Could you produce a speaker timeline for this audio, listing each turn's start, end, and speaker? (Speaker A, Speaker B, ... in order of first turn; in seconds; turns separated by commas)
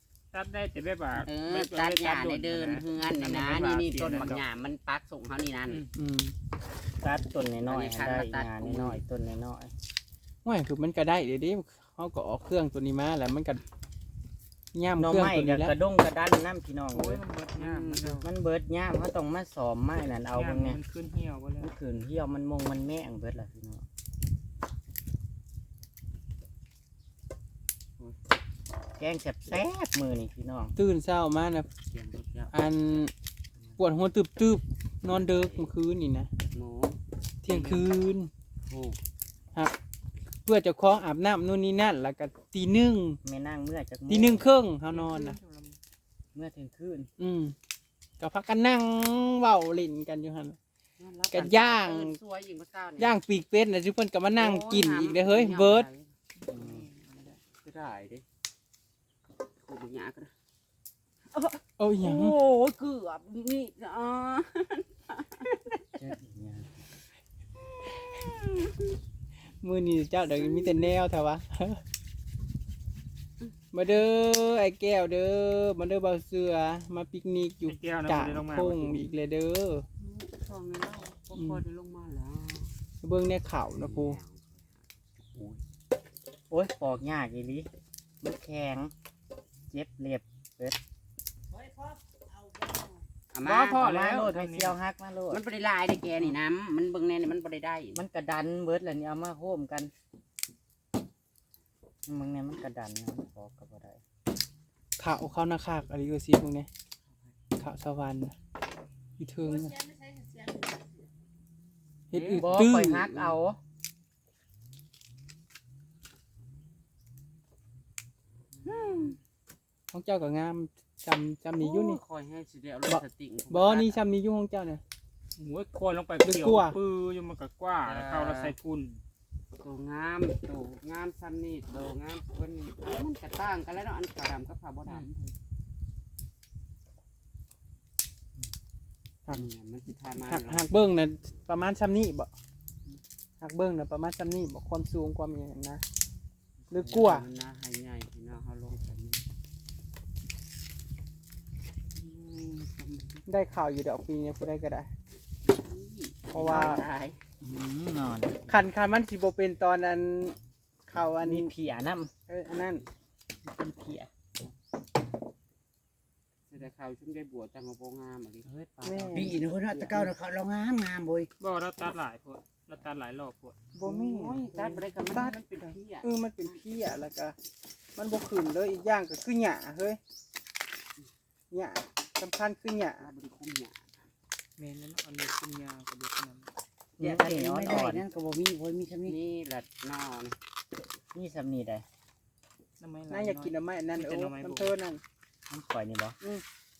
Speaker A: 0.3-4.4, Speaker B: 1.2-5.8, Speaker C: 5.9-6.3, Speaker D: 7.0-9.7, Speaker B: 7.6-9.0, Speaker C: 10.4-13.6, Speaker C: 14.7-15.7, Speaker D: 15.0-17.2, Speaker A: 16.9-18.2, Speaker B: 17.5-18.3, Speaker D: 18.2-20.8, Speaker A: 20.3-21.7, Speaker D: 21.6-23.8, Speaker D: 29.0-30.7, Speaker C: 30.8-31.7, Speaker B: 31.9-32.6, Speaker C: 32.5-33.1, Speaker C: 33.8-36.3, Speaker B: 35.1-35.6, Speaker B: 36.5-37.9, Speaker C: 37.4-38.3, Speaker B: 38.6-39.0, Speaker C: 40.4-43.2, Speaker D: 43.2-44.4, Speaker C: 44.1-45.4, Speaker A: 44.9-45.8, Speaker D: 46.3-47.1, Speaker C: 47.2-47.5, Speaker C: 48.2-50.6, Speaker B: 51.0-53.1, Speaker C: 51.3-52.2, Speaker C: 53.0-55.9, Speaker B: 54.3-56.1, Speaker D: 56.5-56.9, Speaker A: 56.5-57.4, Speaker B: 57.4-58.2, Speaker B: 59.6-60.3, Speaker B: 61.3-65.8, Speaker C: 61.8-62.3, Speaker D: 66.0-66.7, Speaker B: 67.9-68.8, Speaker C: 69.6-71.8, Speaker C: 73.7-79.8, Speaker A: 77.7-79.0, Speaker B: 80.0-82.7, Speaker C: 81.3-81.6, Speaker C: 83.0-84.2, Speaker B: 83.8-85.6, Speaker D: 86.5-87.7, Speaker D: 88.2-88.9, Speaker D: 89.7-90.8, Speaker E: 91.5-93.0, Speaker B: 93.3-93.9, Speaker D: 93.4-95.4, Speaker A: 93.5-94.8, Speaker B: 95.3-98.0, Speaker D: 97.9-99.9, Speaker D: 102.1-104.0, Speaker C: 105.0-106.7, Speaker B: 107.0-107.3, Speaker C: 107.6-108.3, Speaker C: 109.2-109.8, Speaker C: 112.1-113.1, Speaker B: 112.1-113.3, Speaker D: 112.4-113.6, Speaker B: 118.6-119.2, Speaker C: 118.7-119.2, Speaker C: 119.9-122.0, Speaker B: 121.5-124.0, Speaker C: 122.9-124.8, Speaker A: 125.4-129.0, Speaker C: 126.2-126.8, Speaker B: 127.8-128.5, Speaker B: 129.6-135.3, Speaker B: 139.3-140.7, Speaker C: 140.2-142.3, Speaker C: 143.4-145.8, Speaker C: 146.7-147.2, Speaker B: 146.7-149.3, Speaker B: 151.9-153.2, Speaker C: 153.3-154.9, Speaker B: 155.5-157.2, Speaker C: 156.3-156.8, Speaker D: 157.4-158.4, Speaker C: 158.5-160.4, Speaker C: 160.9-161.5, Speaker D: 161.2-162.1, Speaker C: 162.3-162.8, Speaker D: 163.4-164.1, Speaker B: 166.5-170.0, Speaker C: 168.8-170.0, Speaker E: 169.1-171.3, Speaker A: 171.4-173.6, Speaker C: 173.7-177.3, Speaker B: 173.8-176.6, Speaker C: 177.9-180.0, Speaker C: 181.5-183.1, Speaker B: 183.0-183.9, Speaker A: 184.6-186.5, Speaker D: 187.0-188.0, Speaker E: 187.0-189.2, Speaker B: 189.0-190.4, Speaker D: 191.1-191.8, Speaker A: 192.8-194.7, Speaker C: 193.1-195.0, Speaker D: 195.5-196.4